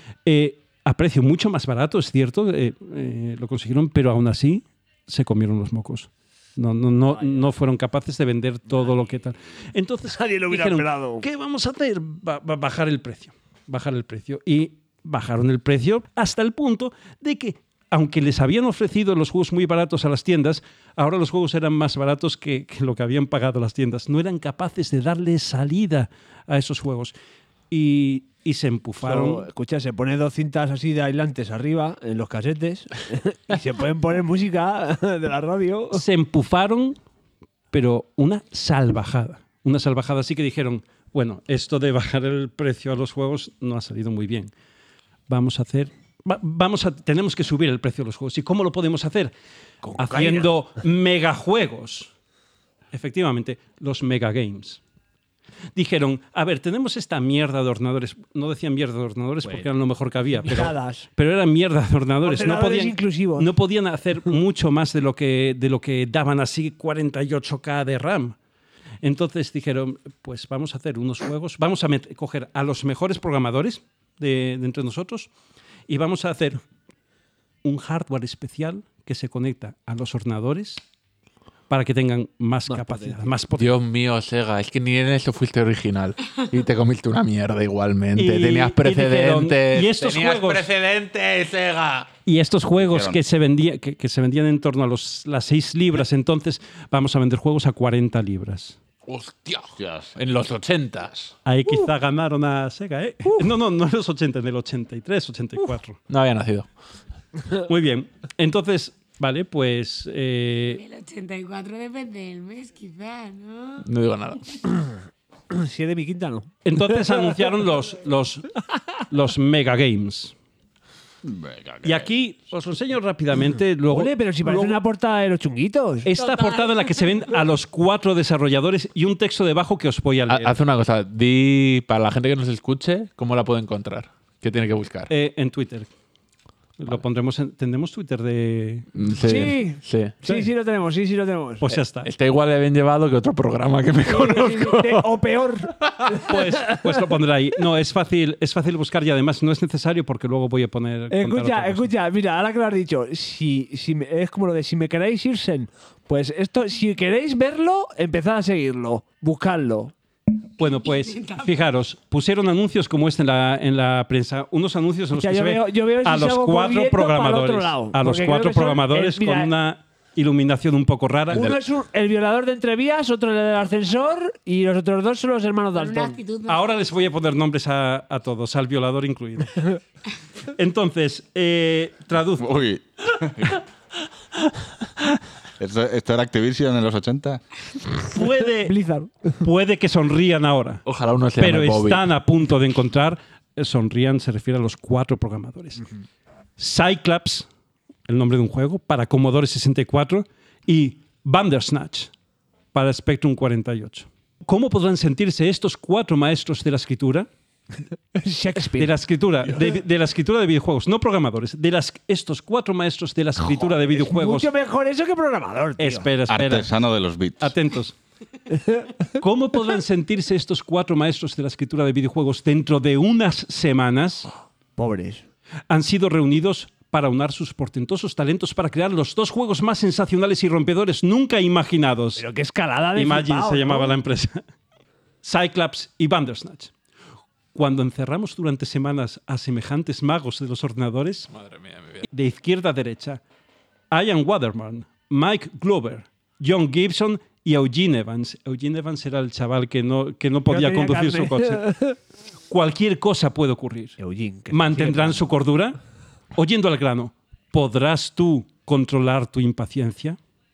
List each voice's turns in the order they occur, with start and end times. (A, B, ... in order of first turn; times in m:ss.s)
0:00.2-0:27.1 A
0:10.1-0:11.2 B
0:27.7-0:29.5 A
0:29.0-0:36.0 B
0:35.9-0:37.0 A
0:37.7-0:44.5 A
0:45.3-0:49.3 A
0:49.8-0:50.5 B
0:50.0-0:52.1 A
0:52.9-0:54.8 A
0:55.7-1:08.4 A
1:00.4-1:01.1 B
1:02.2-1:03.5 B
1:09.0-1:15.3 A
1:15.9-1:16.6 A
1:17.6-1:20.8 A
1:21.7-1:23.8 A
1:22.7-1:23.3 B
1:23.6-1:32.1 C
1:28.2-1:30.7 A
1:32.2-1:38.8 A
1:32.8-1:33.2 D
1:39.0-1:41.3 C
1:39.8-1:40.1 D
1:41.4-1:46.0 A
1:46.1-1:46.7 C
1:47.6-1:50.8 A
1:50.8-1:53.8 E
1:53.8-1:54.6 C
1:55.5-1:56.5 B
1:56.6-1:58.5 A
1:59.1-2:00.3 A
2:01.2-2:02.0 D
2:01.8-2:04.8 A
2:03.9-2:06.1 B
2:06.0-2:10.6 A
2:06.2-2:07.3 E
2:10.3-2:15.1 C
2:15.1-2:15.9 A
2:16.8-2:18.9 A
2:18.9-2:20.2 C
2:19.2-2:21.7 B
2:20.2-2:20.5 A
2:21.6-2:22.1 A
2:21.7-2:25.1 C
2:24.0-2:27.0 B
2:26.1-2:31.9 A
2:31.1-2:39.9 B
2:40.6-2:51.5 A
2:40.7-2:41.4 E
2:45.2-2:49.5 B
2:51.3-2:51.6 C
2:51.3-2:56.2 B
2:55.7-2:56.6 E
2:56.5-2:59.8 A
3:00.5-3:02.5 A
3:02.4-3:03.6 D
3:05.6-3:07.4 D
3:08.1-3:08.8 A
3:08.6-3:09.4 B
3:09.4-3:10.8 A
3:10.8-3:12.1 C
3:11.4-3:15.8 A
3:16.6-3:17.5 A
3:18.1-3:22.1 A
3:22.7-3:27.3 A
3:28.2-3:28.9 B
3:28.6-3:34.5 A
3:33.4-3:36.1 B
3:35.8-3:36.7 A
3:36.3-3:37.5 D
3:37.4-3:38.0 A
3:38.5-3:38.9 B
3:39.2-3:44.3 A
3:44.8-3:45.2 B
3:45.7-3:52.2 A
3:52.2-3:54.0 B
3:52.9-3:54.4 A
3:55.2-3:56.7 A
3:57.5-4:01.3 A
4:01.3-4:02.1 C
4:02.1-4:03.2 A
4:03.9-4:11.7 A
4:10.5-4:12.0 B
4:12.5-4:14.0 A
4:14.0-4:15.2 B
4:14.5-4:15.8 A
4:16.3-4:20.2 A